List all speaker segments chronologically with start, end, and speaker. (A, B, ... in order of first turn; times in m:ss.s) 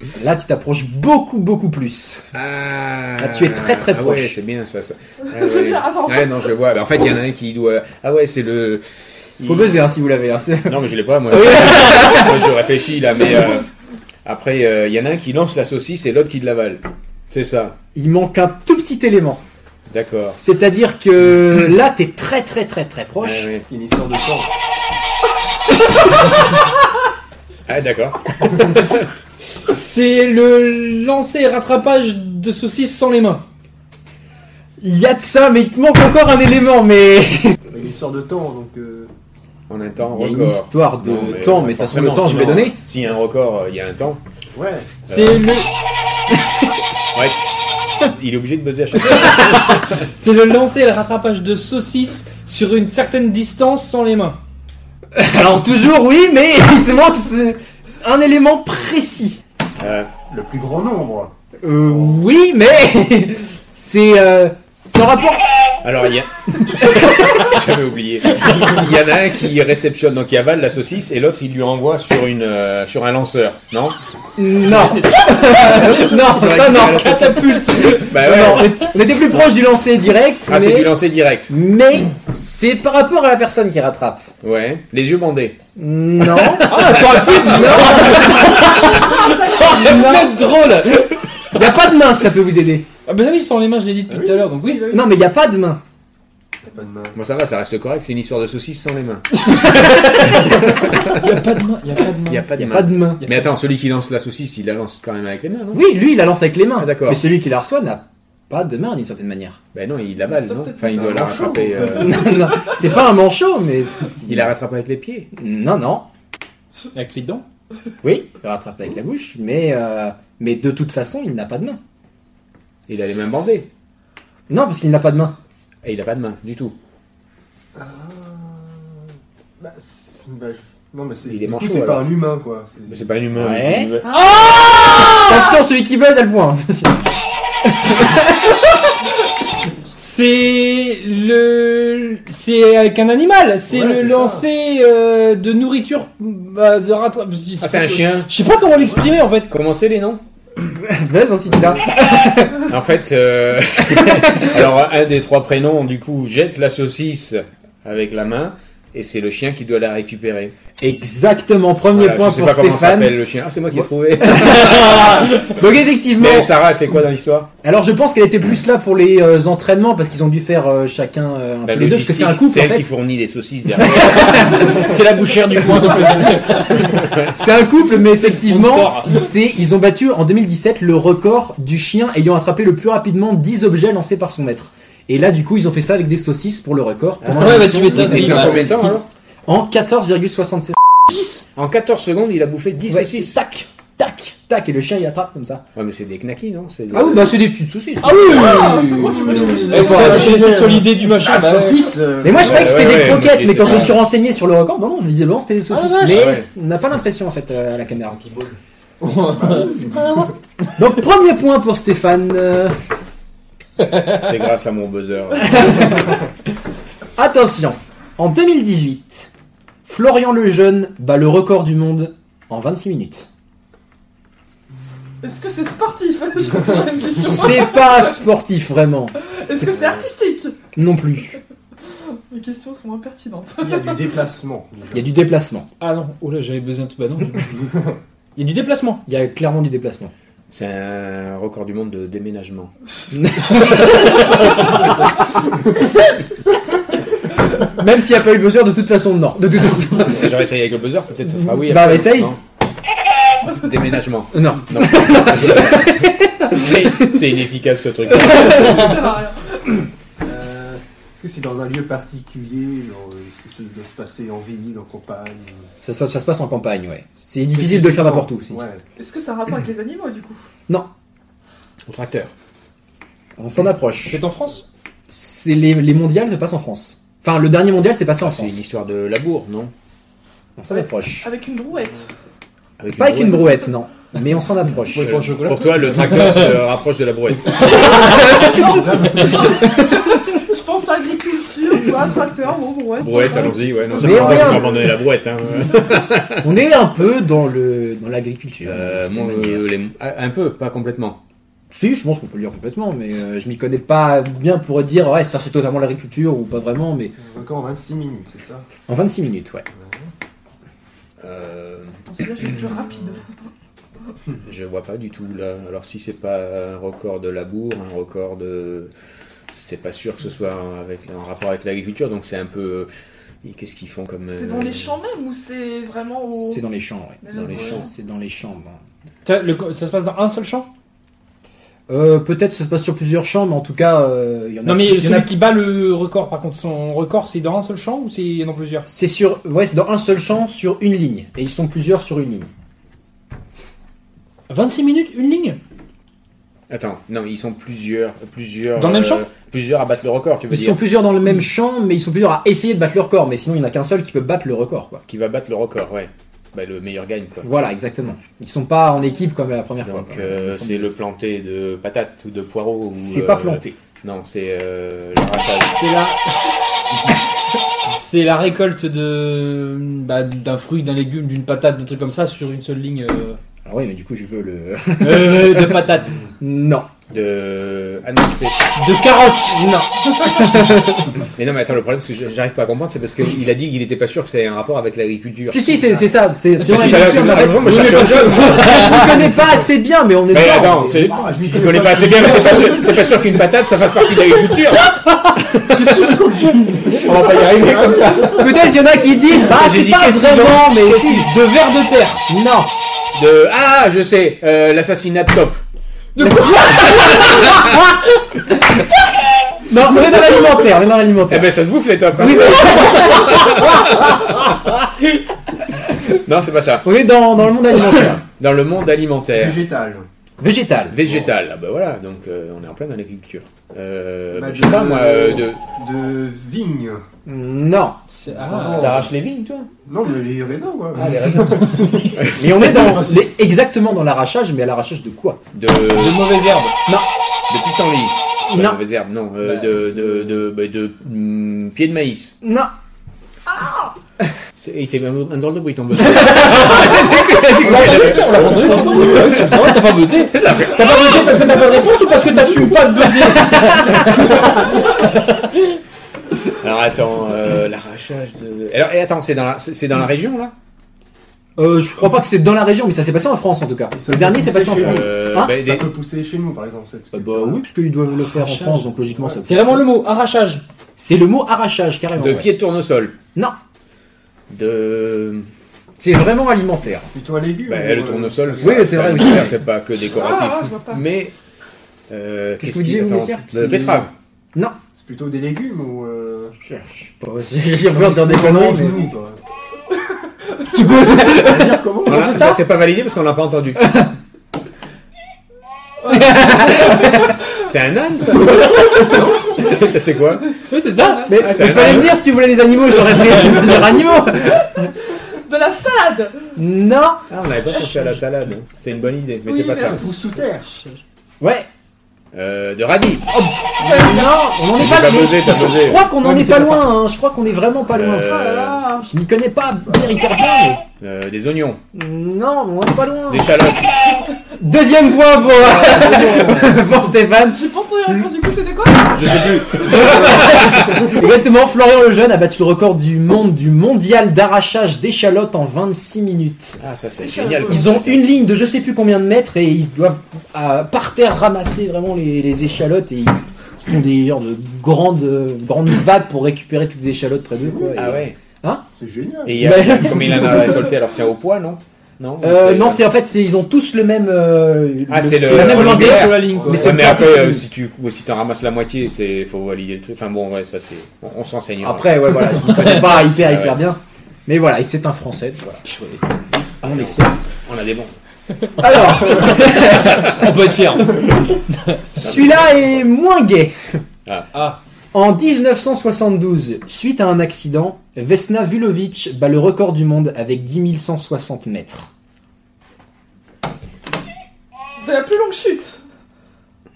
0:00.1-0:02.3 A
0:02.3-0:08.8 B
0:03.2-0:04.4 A
0:05.2-0:06.4 C
0:09.4-0:09.8 B
0:09.4-0:12.3 A
0:10.6-0:13.7 B
0:14.2-0:17.8 B
0:17.9-0:19.4 A
0:19.9-0:20.4 B
0:20.4-0:23.5 A
0:23.2-0:23.6 B
0:23.7-0:24.5 D
0:27.7-0:29.1 B
0:29.7-0:33.4 E
0:34.8-0:37.6 A
0:37.7-0:39.1 D
0:39.7-0:44.2 B
0:40.1-0:42.8 A
0:44.5-0:44.9 D
0:45.1-0:45.7 E
0:45.1-0:45.4 B
0:47.1-0:47.4 B
0:48.0-0:50.0 B
0:49.2-0:54.4 E
0:55.1-0:59.4 A
0:59.8-1:00.1 B
1:00.2-1:01.3 D
1:01.6-1:05.4 A
1:05.8-1:14.0 B
1:06.8-1:07.5 A
1:14.4-1:20.9 A
1:14.7-1:17.4 B
1:15.5-1:18.0 E
1:18.0-1:18.9 B
1:20.5-1:21.5 B
1:21.5-1:24.3 A
1:24.4-1:25.6 B
1:25.8-1:30.4 A
1:26.6-1:31.4 E
1:28.4-1:30.4 C
1:31.5-1:32.9 A
1:33.0-1:34.9 E
1:34.1-1:34.5 D
1:34.6-1:35.1 C
1:34.9-1:35.8 A
1:36.7-1:37.2 D
1:37.1-1:41.4 B
1:39.7-1:42.5 E
1:42.2-1:45.8 B
1:42.5-1:43.2 A
1:43.2-1:43.5 E
1:45.7-1:49.6 A
1:46.8-1:47.2 B
1:49.7-1:52.2 B
1:50.4-1:50.8 C
1:50.8-1:52.4 D
1:51.9-1:54.5 A
1:54.2-1:55.3 B
1:55.3-1:56.1 A
1:56.9-1:57.4 E
1:58.0-2:01.8 A
2:02.9-2:03.7 B
2:04.5-2:05.4 A
2:05.8-2:06.7 B
2:07.7-2:09.0 D
2:09.6-2:13.1 D
2:11.2-2:12.1 B
2:12.9-2:14.1 B
2:13.3-2:14.0 A
2:14.0-2:15.2 C
2:14.1-2:15.5 E
2:14.9-2:17.1 A
2:17.6-2:18.5 A
2:20.0-2:29.5 E
2:23.7-2:24.4 D
2:27.6-2:28.3 B
2:29.5-2:30.2 B
2:30.7-2:32.7 A
2:31.5-2:31.8 D
2:32.6-2:40.5 B
2:33.8-2:34.6 A
2:40.8-2:43.2 A
2:41.9-2:45.5 B
2:43.7-2:46.5 A
2:46.2-2:47.5 B
2:47.6-2:52.9 A
2:51.6-2:54.8 B
2:53.8-3:11.2 A
2:54.4-2:57.0 E
2:56.8-2:57.3 B
2:57.8-2:59.3 E
3:07.2-3:09.1 B
3:07.2-3:08.7 E
3:11.5-3:13.4 B
3:12.9-3:15.6 A
3:15.7-3:17.3 B
3:16.9-3:20.4 A
3:18.0-3:22.0 E
3:18.4-3:23.1 D
3:18.4-3:19.9 C
3:19.2-3:20.0 B
3:22.2-3:28.2 A
3:22.3-3:24.0 B
3:25.7-3:26.4 E
3:26.1-3:26.5 B
3:28.2-3:28.6 B
3:29.0-3:30.3 E
3:29.2-3:30.3 D
3:30.8-3:32.8 A
3:34.1-3:36.1 B
3:35.5-3:36.1 A
3:37.2-3:39.3 A
3:39.8-3:43.3 A
3:45.2-3:48.2 C
3:46.7-3:47.0 D
3:47.2-3:49.2 A
3:49.2-3:50.6 C
3:50.8-3:51.4 A
3:52.0-3:54.1 C
3:53.6-3:55.1 D
3:54.9-3:55.7 A
3:55.8-3:57.5 E
3:57.6-3:58.0 D
3:58.4-3:59.0 E
3:59.0-4:00.1 A
4:00.5-4:02.7 B
4:03.1-4:04.8 A
4:04.8-4:05.5 D
4:07.6-4:10.4 A
4:10.0-4:12.4 B
4:11.3-4:12.3 A
4:13.5-4:18.9 B
4:14.3-4:17.2 A
4:18.4-4:19.8 C
4:20.2-4:25.7 D
4:25.8-4:28.6 A
4:27.5-4:28.8 D
4:29.0-4:30.4 C
4:31.9-4:32.3 B
4:33.4-4:34.2 A
4:34.0-4:34.6 E
4:35.1-4:38.6 A
4:38.2-4:39.7 B
4:40.6-4:41.3 A
4:40.8-4:42.1 C
4:42.8-4:43.6 B
4:42.9-4:45.3 A
4:44.9-4:46.6 E
4:44.9-4:47.9 B
4:47.6-4:54.0 C
4:47.7-4:48.4 E
4:48.2-4:49.8 D
4:53.0-4:56.5 B
4:53.2-4:55.0 D
4:53.9-4:54.9 A
4:56.4-4:59.6 A
4:58.6-5:01.2 B
5:01.7-5:07.1 A
5:07.1-5:08.7 D
5:08.9-5:09.6 A
5:09.7-5:10.1 D
5:11.2-5:12.0 B
5:12.1-5:13.2 C
5:14.4-5:18.9 B
5:19.5-5:22.9 B
5:23.4-5:25.0 B
5:24.3-5:26.6 C
5:26.4-5:28.8 A
5:27.2-5:27.9 C
5:27.3-5:27.9 B
5:29.2-5:30.7 E
5:31.9-5:35.3 A
5:34.6-5:38.9 E
5:38.9-5:42.5 A
5:44.5-5:45.6 E
5:46.7-5:50.8 B
5:48.8-5:49.2 E
5:50.5-5:55.0 A
5:55.1-5:57.5 B
5:57.4-6:00.8 A
5:59.8-6:05.8 B
6:03.0-6:03.8 A
6:05.7-6:06.4 E
6:07.9-6:13.4 E
6:13.6-6:15.9 A
6:15.0-6:16.2 E
6:16.4-6:16.9 A
6:17.1-6:18.6 B
6:18.8-6:19.6 E
6:19.5-6:21.2 A
6:21.3-6:25.9 B
6:25.5-6:31.0 A
6:26.6-6:29.5 E
6:26.6-6:29.2 B
6:30.3-6:34.9 B
6:30.9-6:33.4 D
6:35.1-6:36.1 E
6:35.6-6:38.5 D
6:37.0-6:38.5 B
6:37.6-6:38.3 E
6:38.3-6:41.3 A
6:39.4-6:40.5 B
6:39.8-6:42.2 E
6:42.3-6:42.7 A
6:43.1-6:45.6 B
6:46.1-6:47.8 E
6:46.2-6:47.9 A
6:48.5-6:48.8 A
6:49.6-6:51.5 A
6:51.3-6:54.4 B
6:52.2-6:53.5 A
6:52.9-6:53.4 E
6:56.1-6:57.0 B
6:56.8-6:58.2 A
6:58.3-6:59.6 B
6:59.3-7:00.1 D
7:00.4-7:01.0 A
7:00.9-7:05.6 B
7:04.3-7:07.0 D
7:07.2-7:08.0 A
7:08.1-7:09.0 E
7:08.3-7:09.1 D
7:08.7-7:09.7 B
7:09.8-7:13.3 D
7:11.0-7:15.4 A
7:12.1-7:12.4 B
7:15.5-7:16.3 B
7:15.9-7:16.7 E
7:17.5-7:22.4 B
7:18.5-7:18.8 A
7:22.4-7:22.7 A
7:23.5-7:23.9 C
7:24.6-7:29.8 B
7:26.2-7:35.4 E
7:30.3-7:31.4 B
7:32.0-7:34.8 A
7:36.5-7:40.5 B
7:41.6-7:45.6 A
7:43.9-7:47.6 D
7:44.7-7:45.9 B
7:47.1-7:49.9 A
7:48.3-7:48.8 E
7:49.4-7:50.6 E
7:51.0-7:52.5 A
7:52.2-7:53.2 B
7:54.5-7:55.5 B
7:56.0-7:57.1 A
7:57.1-7:59.1 D
7:57.6-8:01.3 B
7:58.6-7:59.6 A
8:00.0-8:01.0 C
8:02.1-8:04.1 B
8:02.6-8:03.5 A
8:03.4-8:04.1 D
8:04.9-8:06.5 D
8:06.6-8:09.0 A
8:07.9-8:09.4 D
8:10.0-8:10.9 C
8:10.7-8:12.6 A
8:10.9-8:12.4 D
8:12.0-8:14.0 B
8:12.1-8:12.6 E
8:13.8-8:14.1 A
8:16.0-8:17.3 C
8:16.1-8:17.3 A
8:17.6-8:20.5 B
8:18.5-8:19.7 C
8:18.9-8:19.3 A
8:20.5-8:21.4 C
8:20.7-8:21.8 E
8:21.2-8:24.9 A
8:21.4-8:22.2 B
8:24.3-8:26.5 C
8:26.5-8:27.2 A
8:27.3-8:30.0 B
8:29.4-8:30.2 C
8:29.8-8:30.7 D
8:31.4-8:31.7 A
8:32.3-8:33.3 B
8:33.3-8:40.8 A
8:33.8-8:34.5 C
8:34.7-8:36.1 B
8:36.2-8:36.9 E
8:37.9-8:38.9 B
8:38.2-8:39.1 C
8:41.0-8:41.8 B
8:41.9-8:43.5 A
8:43.3-8:43.9 B
8:44.6-8:47.6 A
8:45.5-8:46.8 D
8:47.5-8:49.4 C
8:49.1-8:51.1 B
8:49.8-8:56.8 A
8:56.8-8:58.2 B
8:57.2-8:57.8 C
8:57.6-9:08.8 A
9:07.6-9:08.1 D
9:07.9-9:08.4 B
9:09.0-9:09.7 D
9:09.4-9:13.0 B
9:09.6-9:10.8 A
9:12.4-9:17.6 A
9:15.1-9:23.8 B
9:15.4-9:17.5 E
9:16.4-9:17.0 D
9:21.8-9:25.8 A
9:25.8-9:26.2 E
9:26.8-9:27.4 A
9:26.8-9:28.1 B
9:28.8-9:30.5 A
9:29.3-9:32.0 E
9:30.0-9:30.4 B
9:32.1-9:34.0 A
9:32.2-9:32.9 B
9:34.5-9:34.8 E
9:35.1-9:42.1 A
9:45.0-9:46.0 C